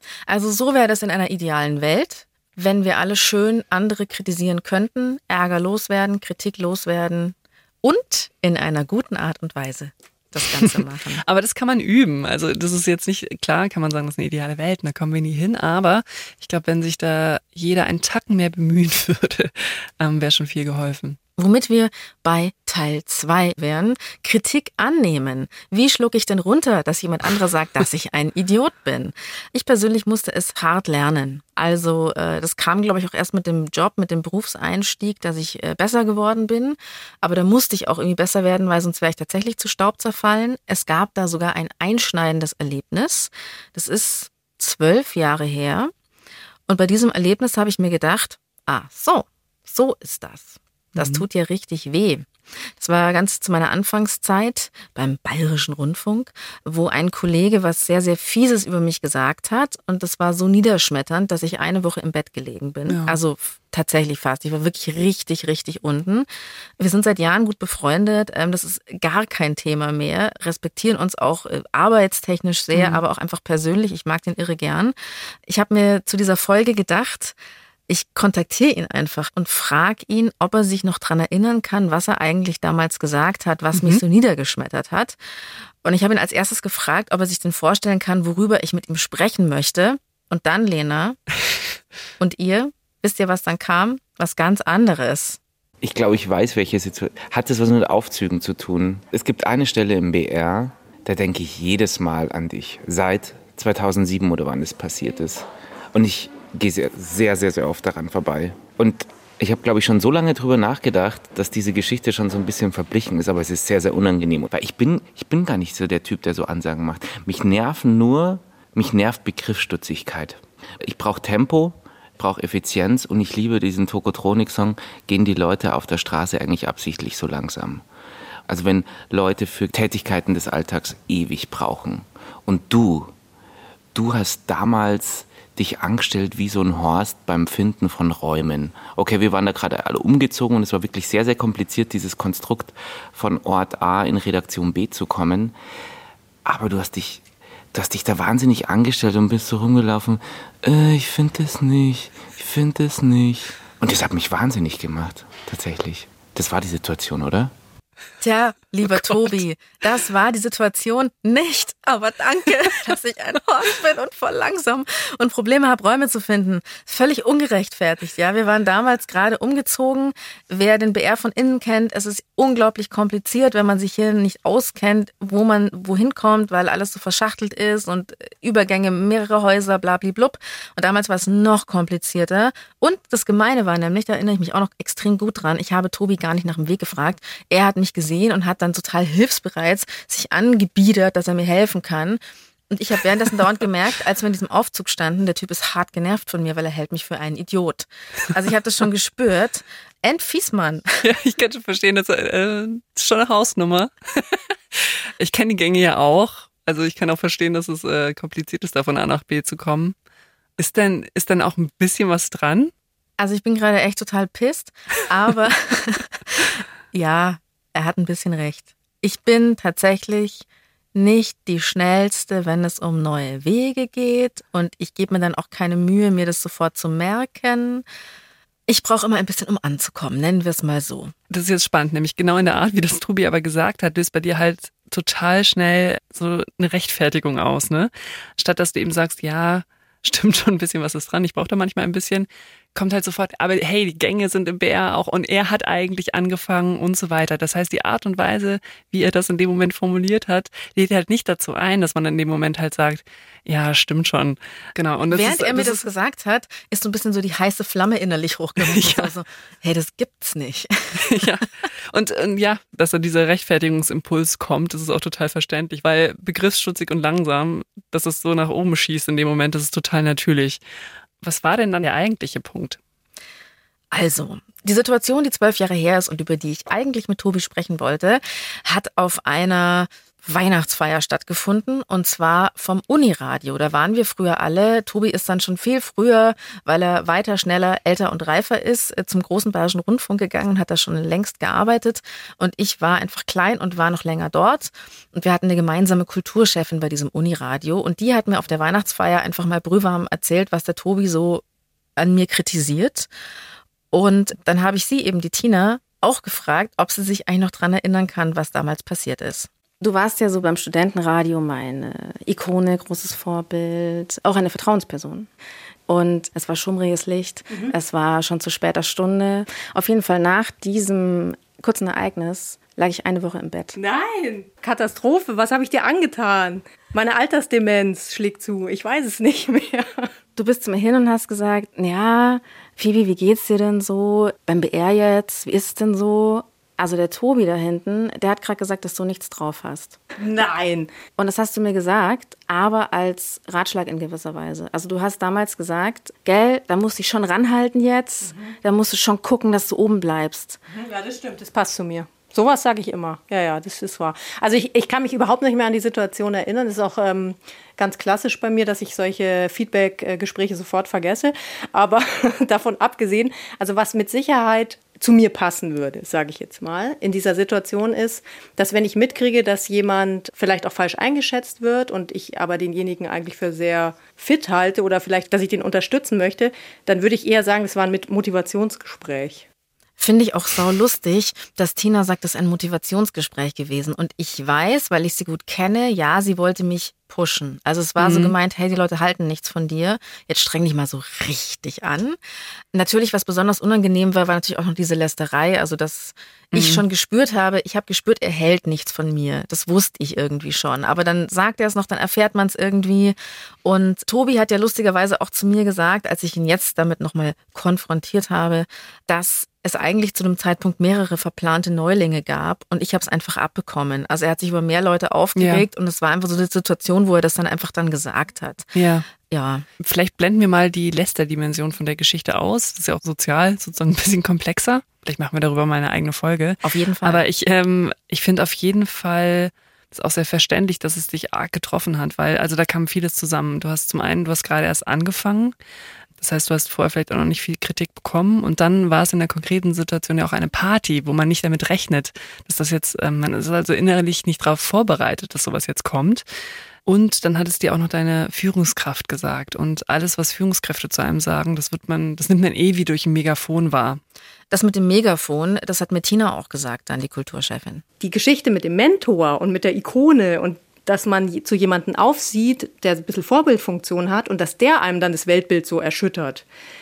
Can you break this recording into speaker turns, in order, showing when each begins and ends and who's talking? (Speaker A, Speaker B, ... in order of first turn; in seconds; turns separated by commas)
Speaker A: 0.3-11.2, Speaker B: 11.2-21.2, Speaker A: 21.4-45.9, Speaker A: 46.7-66.3, Speaker B: 51.0-51.2, Speaker B: 62.9-63.2, Speaker A: 66.8-74.9, Speaker B: 72.7-73.0, Speaker A: 75.5-77.4, Speaker A: 77.9-85.2, Speaker B: 83.7-84.0, Speaker A: 85.8-91.2, Speaker A: 92.2-95.4, Speaker C: 95.8-127.8, Speaker C: 128.5-133.1, Speaker C: 133.9-145.6, Speaker C: 146.5-147.2, Speaker C: 147.7-157.5, Speaker A: 158.2-201.0, Speaker B: 201.0-209.9, Speaker B: 210.6-212.7, Speaker A: 213.2-227.8, Speaker A: 228.7-231.1, Speaker B: 231.3-255.8, Speaker A: 255.1-261.2, Speaker B: 258.6-259.1, Speaker B: 261.0-270.6, Speaker B: 271.2-272.8, Speaker A: 273.9-301.4, Speaker A: 302.0-303.1, Speaker A: 303.9-315.3, Speaker A: 315.9-323.8, Speaker D: 323.8-330.1, Speaker A: 330.4-340.0, Speaker D: 340.2-340.9, Speaker A: 341.2-350.6, Speaker D: 350.7-379.4, Speaker A: 380.0-392.2, Speaker B: 388.0-388.4, Speaker A: 392.7-419.7, Speaker B: 396.5-396.8, Speaker B: 415.4-415.7, Speaker B: 418.8-419.1, Speaker B: 419.8-435.6, Speaker A: 426.6-427.2, Speaker B: 436.2-446.2, Speaker B: 446.9-454.0, Speaker A: 454.5-457.8, Speaker D: 458.0-466.4